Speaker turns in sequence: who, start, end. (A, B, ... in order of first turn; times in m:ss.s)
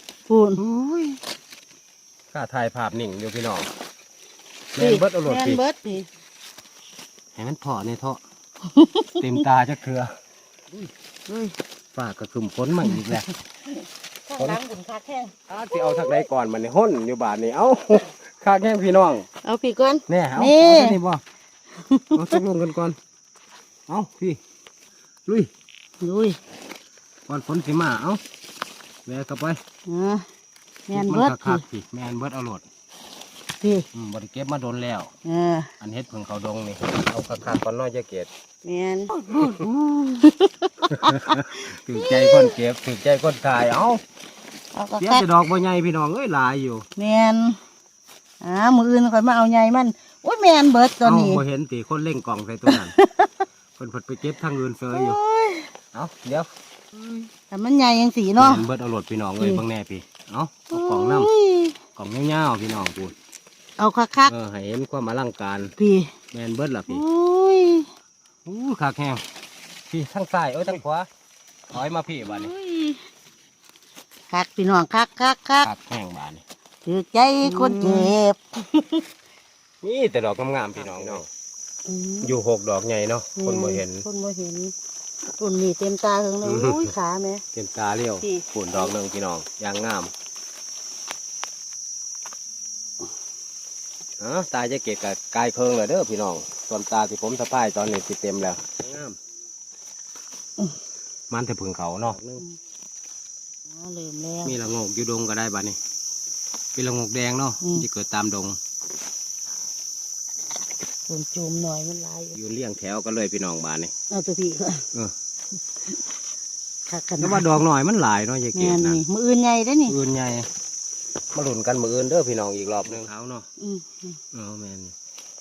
0:00.3-0:00.6 A
0:00.6-0:01.2 B
0:02.3-0:03.7 B
0:04.7-0:05.6 B
0:04.8-0:06.1 A
0:07.3-0:08.2 B
0:08.6-0:09.4 A
0:09.2-0:10.2 B
0:11.3-0:11.6 A
0:11.9-0:13.3 B
0:12.8-0:16.3 A
0:15.5-0:19.3 B
0:19.4-0:21.0 A
0:20.1-0:21.2 B
0:21.7-0:22.4 A
0:22.1-0:23.0 B
0:23.9-0:24.4 B
0:25.2-0:25.5 B
0:26.0-0:26.4 A
0:27.3-0:28.2 B
0:29.0-0:29.6 B
0:29.8-0:30.3 A
0:30.9-0:31.6 A
0:30.9-0:32.6 B
0:33.6-0:33.9 A
0:33.9-0:35.1 B
0:35.2-0:35.7 A
0:35.8-0:38.3 B
0:38.6-0:42.6 A
0:39.3-0:40.1 B
0:40.9-0:44.0 B
0:44.7-0:45.3 A
0:45.0-0:46.9 B
0:47.0-0:47.6 A
0:48.4-0:51.4 A
0:51.0-0:52.9 B
0:52.6-0:53.4 A
0:53.8-0:55.2 B
0:54.9-0:55.7 A
0:55.9-0:56.5 B
0:57.3-0:58.7 A
0:58.4-1:01.3 B
1:00.7-1:01.8 A
1:02.0-1:03.1 B
1:03.8-1:04.3 A
1:04.2-1:05.7 B
1:05.8-1:06.1 A
1:06.3-1:07.0 B
1:06.9-1:07.9 A
1:08.4-1:09.2 B
1:09.9-1:11.1 B
1:11.7-1:12.5 B
1:12.2-1:13.0 A
1:14.3-1:15.7 A
1:15.6-1:16.4 B
1:16.8-1:19.0 A
1:17.4-1:18.1 B
1:19.8-1:21.3 B
1:21.8-1:22.4 A
1:22.2-1:24.0 B
1:23.4-1:24.7 A
1:25.4-1:27.4 A
1:26.4-1:26.9 B
1:27.5-1:30.1 B
1:28.2-1:28.9 A
1:34.2-1:39.2 B
1:41.3-1:42.4 B
1:43.7-1:44.6 A
1:44.4-1:45.8 B
1:46.7-1:48.6 B
1:47.6-1:47.8 A
1:51.1-1:52.4 A
1:52.3-1:53.9 B
1:54.1-1:54.9 A
1:56.9-1:57.6 A
1:57.2-1:59.0 B
1:58.5-2:00.0 A
1:59.9-2:00.5 B
2:01.3-2:03.5 B
2:03.6-2:04.2 A
2:04.3-2:04.9 B